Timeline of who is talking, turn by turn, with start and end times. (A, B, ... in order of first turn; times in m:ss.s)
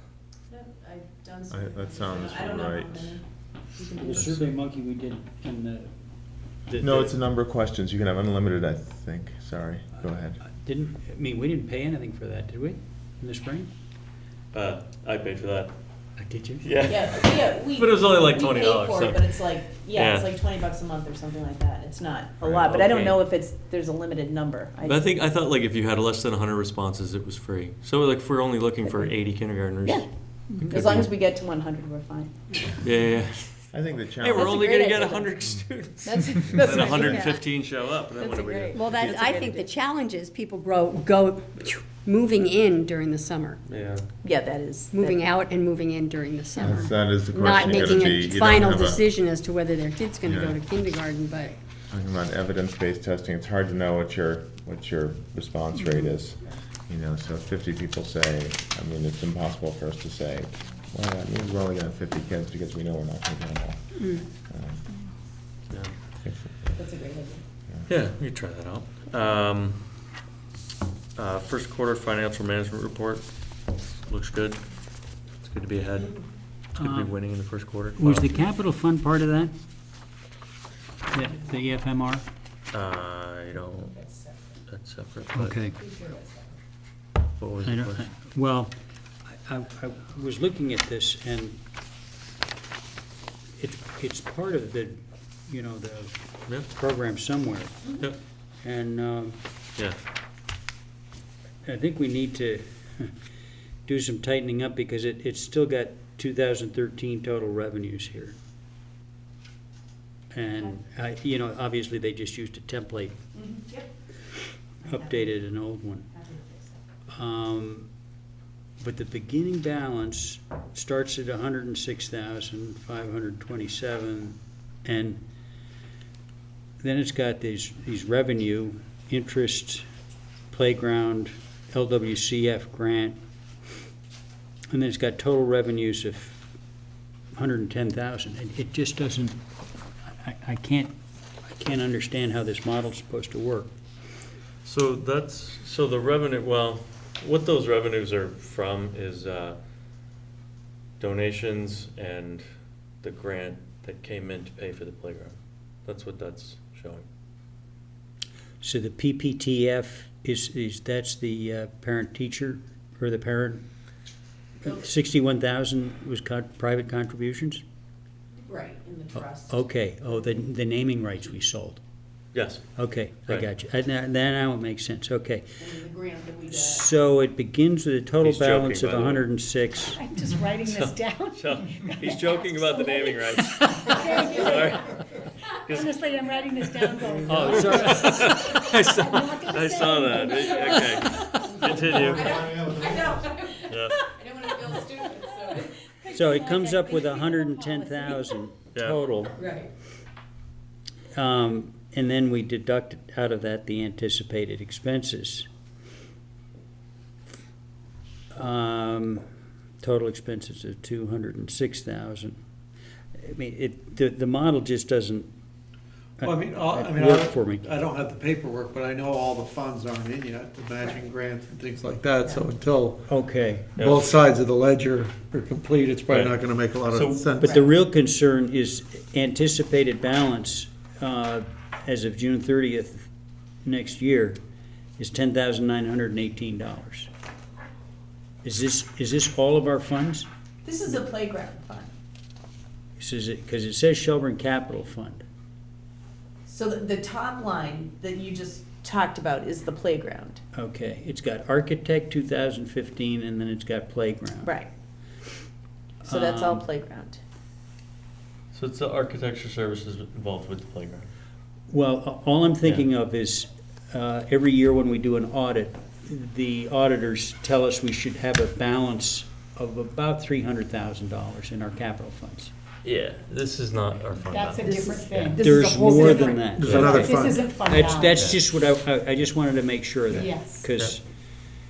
0:00.5-0:03.2 A
0:01.5-0:03.2 B
0:03.8-0:04.3 A
0:04.0-0:05.9 C
0:06.7-0:07.2 C
0:06.8-0:10.4 B
0:10.0-0:13.7 C
0:14.5-0:15.7 D
0:16.2-0:16.6 C
0:16.6-0:19.4 D
0:16.9-0:25.0 A
0:19.9-0:20.3 D
0:22.4-0:23.3 D
0:24.8-0:31.1 D
0:30.6-0:32.7 A
0:32.8-0:39.2 D
0:33.7-0:35.0 B
0:34.3-0:35.5 A
0:36.0-0:37.4 A
0:36.3-0:37.4 E
0:38.2-0:39.6 A
0:38.7-0:43.6 E
0:43.7-0:44.1 D
0:44.2-0:45.3 A
0:44.9-0:51.6 E
0:46.6-0:49.0 B
0:47.3-0:48.1 A
0:50.3-0:50.6 B
0:51.9-1:04.8 B
1:05.7-1:05.9 D
1:06.2-1:06.7 B
1:06.8-1:07.4 A
1:07.9-1:09.8 D
1:11.2-1:13.3 D
1:14.1-1:14.6 D
1:15.4-1:16.2 D
1:16.7-1:18.4 D
1:16.8-1:17.1 C
1:18.0-1:19.5 C
1:21.1-1:22.2 C
1:22.7-1:24.0 D
1:23.9-1:24.4 A
1:24.7-1:25.6 D
1:25.4-1:25.8 C
1:25.8-1:26.5 A
1:27.4-1:28.1 D
1:27.6-1:28.7 C
1:29.3-1:31.6 C
1:33.6-1:37.8 C
1:38.6-1:39.4 C
1:41.6-1:43.1 C
1:43.8-1:48.4 C
1:50.3-1:53.2 C
1:53.3-1:53.9 A
1:54.8-1:56.1 C
1:54.9-1:55.2 A
1:56.1-1:56.8 A
1:57.1-1:57.9 C
1:58.8-2:05.2 C
2:06.8-2:09.8 C
2:10.5-2:13.2 C
2:14.7-2:16.4 C
2:17.3-2:19.4 C
2:20.0-2:23.7 C
2:24.6-2:29.6 D
2:31.0-2:32.5 D
2:33.0-2:37.0 D
2:38.6-2:43.6 C
2:44.6-2:47.6 C
2:48.4-2:49.6 A
2:49.2-2:51.8 C
2:52.3-2:52.6 D
2:52.8-2:55.4 C
2:55.6-2:56.8 A
2:56.5-3:00.0 C
2:58.2-2:59.3 D
2:59.9-3:05.0 F
3:00.6-3:05.0 D
3:04.0-3:04.7 A
3:05.6-3:12.5 D
3:05.7-3:11.0 F
3:07.2-3:08.5 C
3:10.3-3:10.8 A
3:10.6-3:12.0 C
3:12.0-3:18.2 A
3:13.7-3:14.0 D
3:16.1-3:19.4 C
3:18.7-3:19.0 D
3:19.4-3:19.7 A
3:21.1-3:25.5 C
3:28.3-3:29.2 C
3:29.8-3:32.4 C
3:33.2-3:35.3 C
3:36.2-3:37.7 C
3:36.2-3:43.0 G
3:43.1-3:43.7 C
3:43.8-3:44.1 D
3:43.8-3:47.6 G
3:46.1-3:46.4 D
3:46.9-3:47.3 D
3:47.4-3:53.1 C
3:53.6-3:54.4 C
3:55.0-3:57.1 C
3:58.4-4:00.3 C
4:00.6-4:01.9 A
4:03.0-4:05.2 C
4:06.5-4:10.4 A
4:10.5-4:14.5 C
4:14.4-4:14.7 A
4:16.0-4:16.6 C
4:16.0-4:17.2 A
4:18.5-4:21.1 D
4:21.7-4:32.5 C
4:32.8-4:34.7 D
4:34.2-4:38.3 F
4:35.3-4:41.0 C
4:36.4-4:37.5 G
4:38.1-4:38.4 D
4:40.1-4:40.7 F